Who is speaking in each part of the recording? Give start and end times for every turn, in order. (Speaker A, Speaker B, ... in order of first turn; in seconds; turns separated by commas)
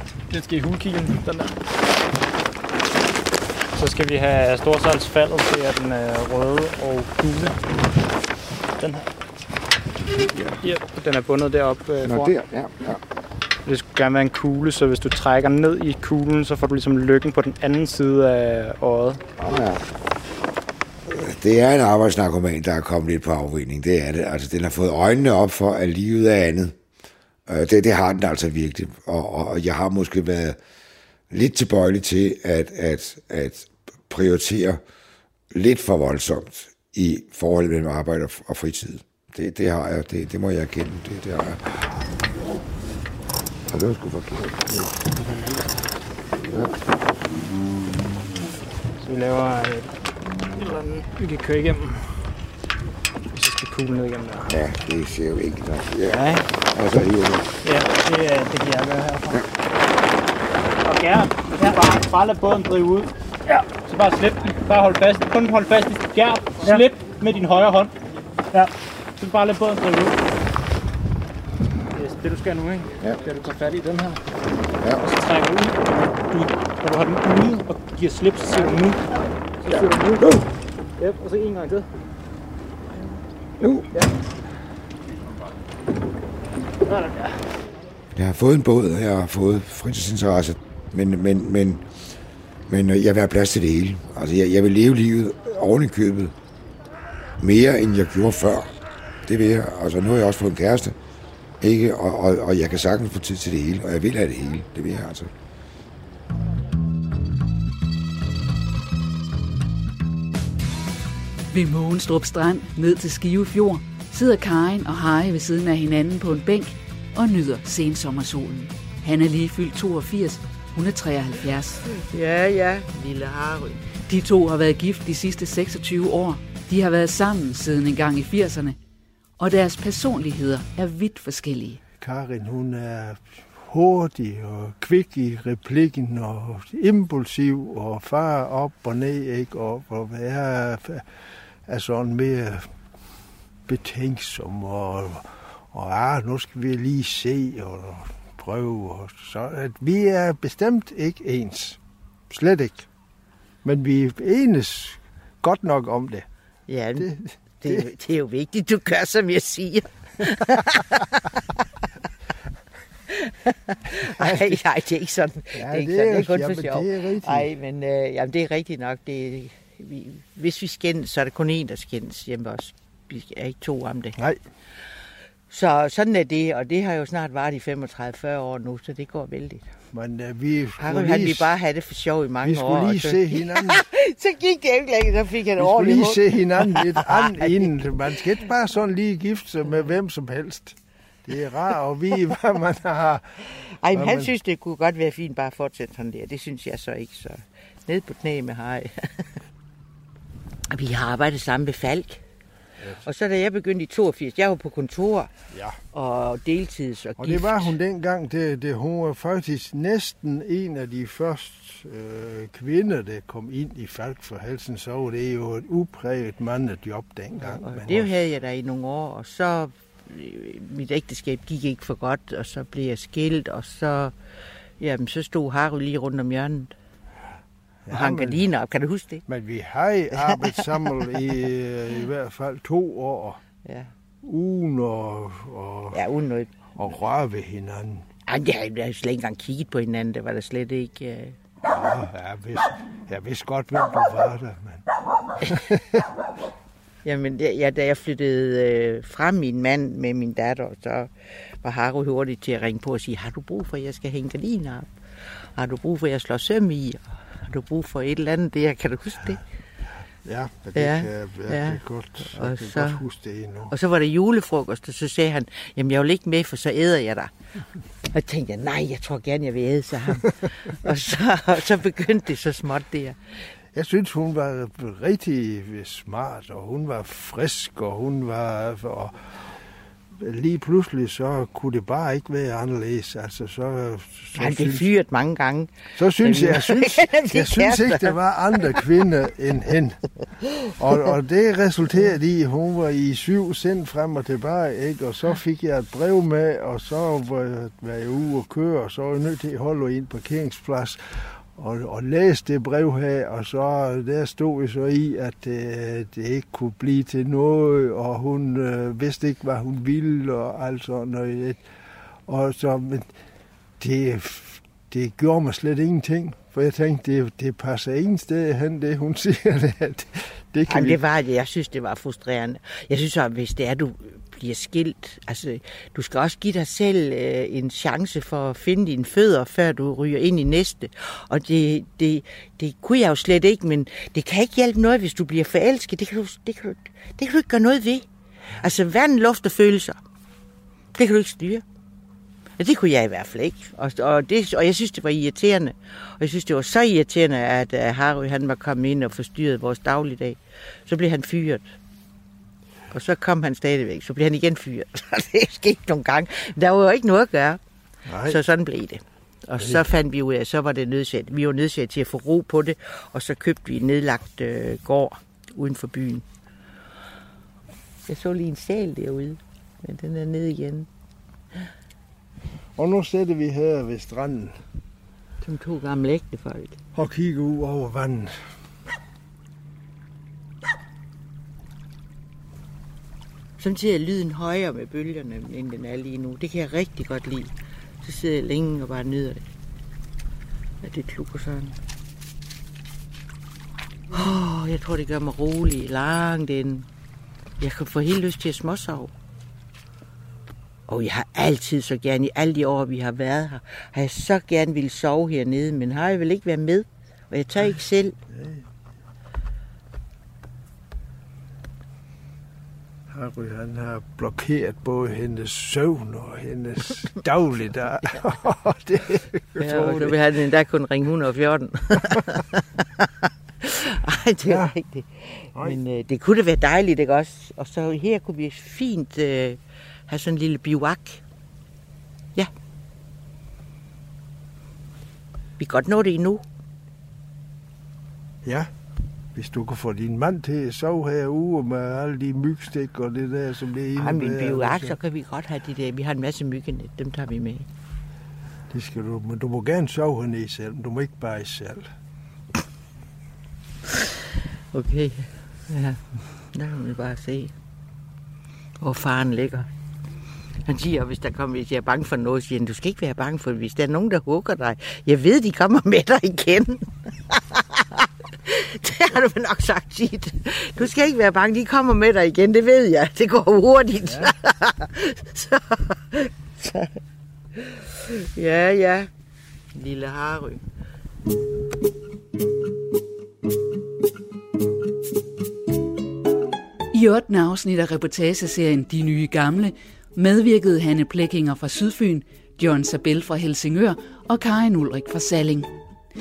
Speaker A: 0.3-1.6, Speaker A: 3.7-7.5, Speaker A: 8.8-9.1, Speaker B: 10.3-10.6, Speaker A: 10.6-12.3, Speaker B: 12.0-13.0, Speaker A: 13.7-19.2, Speaker B: 19.4-19.8, Speaker B: 21.1-26.8, Speaker B: 27.5-30.6, Speaker B: 31.3-34.8, Speaker B: 35.5-42.0, Speaker B: 43.7-44.9, Speaker A: 45.2-45.6, Speaker B: 46.4-46.8, Speaker A: 49.0-49.9, Speaker A: 50.5-52.2, Speaker A: 53.3-54.5, Speaker B: 54.5-57.5, Speaker A: 56.1-56.4, Speaker A: 57.6-59.4, Speaker A: 60.8-67.9, Speaker A: 68.5-70.2, Speaker A: 71.9-74.2, Speaker B: 74.8-75.0, Speaker A: 75.0-79.0, Speaker A: 79.6-80.2, Speaker A: 81.0-81.9, Speaker B: 83.6-83.9, Speaker B: 88.1-91.8, Speaker B: 92.7-96.3, Speaker B: 97.4-98.7, Speaker B: 99.2-101.0, Speaker B: 101.6-105.3, Speaker C: 111.5-121.8, Speaker D: 121.9-123.8, Speaker C: 124.1-128.8, Speaker C: 129.4-131.8, Speaker E: 132.0-141.0, Speaker E: 141.7-142.7, Speaker E: 143.7-151.8, Speaker E: 152.3-152.9, Speaker E: 153.6-156.3, Speaker D: 156.7-157.1, Speaker E: 157.0-157.9, Speaker D: 157.6-161.0, Speaker D: 163.1-174.2, Speaker E: 164.1-164.6, Speaker E: 165.6-167.5, Speaker D: 175.5-179.7, Speaker E: 179.9-181.6, Speaker D: 180.8-187.9, Speaker E: 182.4-183.8, Speaker E: 185.6-193.4, Speaker D: 193.8-199.3, Speaker E: 193.9-194.3, Speaker D: 200.7-202.2, Speaker E: 202.8-203.1, Speaker D: 203.0-205.3, Speaker E: 205.5-205.8, Speaker D: 205.9-207.7, Speaker E: 207.2-218.1, Speaker D: 217.4-224.1, Speaker D: 224.8-226.7, Speaker E: 227.9-228.4, Speaker D: 227.9-229.2, Speaker E: 229.3-233.4, Speaker D: 230.1-230.8, Speaker D: 233.6-233.9, Speaker E: 234.2-236.0, Speaker D: 235.9-236.7, Speaker E: 236.8-238.1, Speaker D: 238.3-241.4, Speaker E: 241.7-244.9, Speaker E: 245.5-245.9, Speaker D: 247.0-254.9, Speaker D: 255.6-259.4, Speaker E: 260.2-263.7, Speaker D: 260.7-261.8, Speaker D: 262.3-263.0, Speaker D: 263.7-267.3, Speaker D: 268.1-273.2, Speaker E: 273.7-279.6, Speaker E: 280.2-284.9, Speaker D: 284.4-288.1, Speaker E: 285.9-290.0, Speaker E: 290.8-311.6, Speaker E: 312.3-313.1, Speaker E: 313.8-321.0, Speaker D: 320.7-338.1, Speaker D: 338.6-340.0, Speaker D: 340.9-341.6, Speaker D: 342.6-351.7, Speaker D: 352.9-357.6, Speaker E: 358.1-358.4, Speaker D: 358.2-366.2, Speaker D: 368.1-370.9, Speaker E: 372.8-374.6, Speaker D: 375.4-376.8, Speaker E: 376.9-378.4, Speaker D: 383.6-389.4, Speaker D: 390.8-391.8, Speaker D: 394.1-396.9, Speaker D: 397.6-399.1, Speaker D: 400.9-408.2, Speaker E: 408.3-408.7, Speaker E: 413.1-420.2, Speaker D: 419.6-431.2, Speaker E: 424.5-424.7, Speaker D: 435.6-436.4, Speaker E: 438.4-438.7, Speaker E: 439.3-444.9, Speaker D: 443.9-447.7, Speaker E: 448.7-451.9, Speaker D: 454.7-457.5, Speaker D: 458.8-459.7, Speaker D: 460.6-477.0, Speaker D: 477.5-479.1, Speaker D: 479.7-480.6, Speaker C: 486.9-495.7